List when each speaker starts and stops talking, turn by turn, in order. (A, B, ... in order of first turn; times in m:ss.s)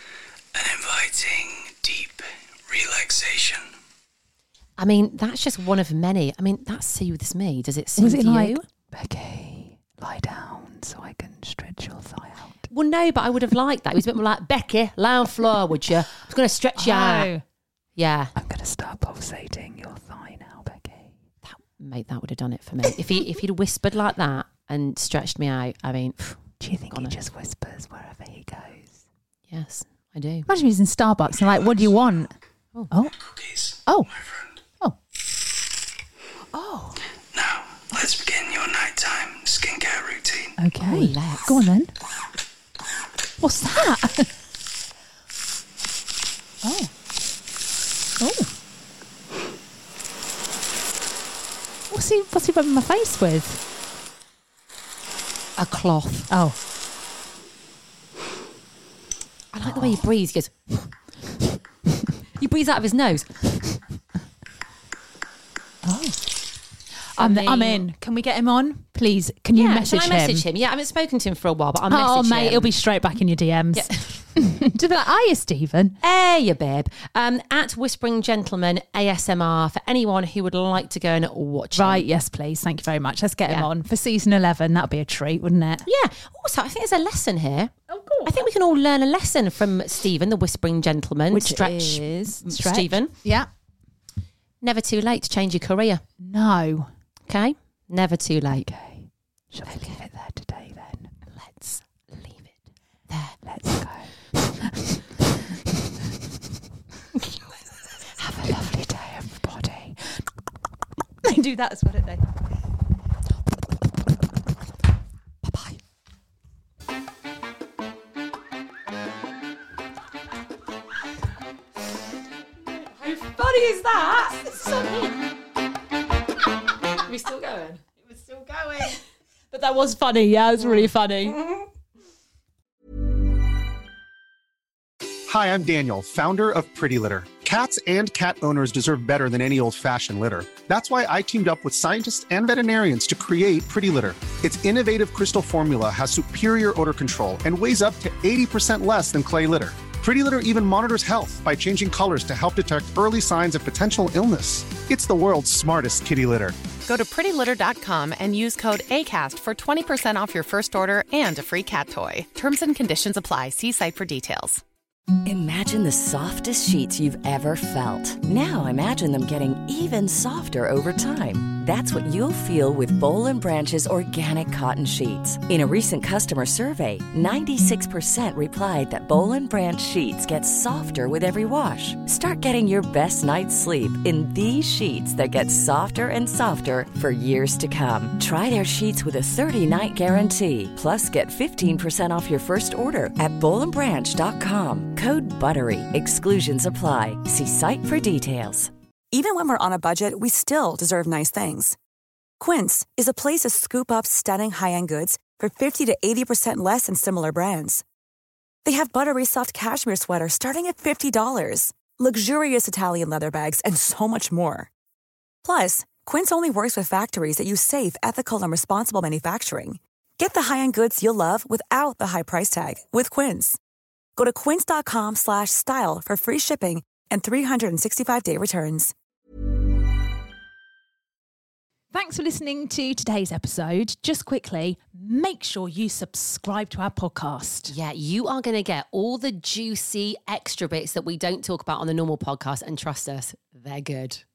0:00.5-0:03.7 A
0:04.8-0:08.6 B
0:08.0-0:12.6 C
0:12.7-0:17.3 B
0:16.8-0:17.4 C
0:18.0-0:18.3 B
0:18.4-0:21.1 C
0:21.4-0:26.4 B
0:26.6-0:28.9 C
0:29.5-0:30.5 B
0:30.5-0:32.3 C
0:33.2-0:34.6 A
0:33.8-0:34.1 C
0:36.5-0:37.0 C
0:37.3-0:40.5 A
0:40.6-0:41.9 C
0:40.8-0:41.6 B
0:43.4-0:44.3 C
0:46.6-0:46.9 C
0:48.2-0:48.5 C
0:51.9-0:53.6 C
0:55.6-0:56.3 B
0:56.3-0:56.6 C
0:59.5-1:00.9 B
0:59.7-1:00.0 C
1:02.4-1:03.3 B
1:05.8-1:06.2 C
1:07.2-1:10.4 C
1:07.2-1:07.9 B
1:09.5-1:12.7 B
1:11.9-1:16.0 C
1:13.7-1:14.2 B
1:16.0-1:22.0 B
1:21.8-1:25.9 C
1:25.8-1:33.2 B
1:27.9-1:28.5 C
1:31.3-1:33.5 C
1:34.6-1:36.0 B
1:36.2-1:36.9 C
1:37.3-1:38.7 B
1:38.5-1:41.2 C
1:39.7-1:40.0 B
1:41.3-1:42.1 B
1:43.1-1:43.4 B
1:43.4-1:45.0 C
1:48.2-1:50.2 C
1:51.2-1:52.2 C
1:55.5-1:55.8 C
2:03.0-2:04.5 B
2:04.3-2:05.1 C
2:07.0-2:07.8 B
2:08.6-2:08.9 C
2:09.5-2:11.4 C
2:10.6-2:10.9 B
2:15.3-2:36.6 D
2:36.9-2:44.6 E
2:45.2-3:18.7 F
3:19.1-3:21.8 G
3:22.4-3:27.8 G
3:28.6-3:34.7 G
3:35.4-3:43.6 G
3:44.2-3:48.9 G
3:51.9-3:57.7 C
3:57.7-4:04.2 B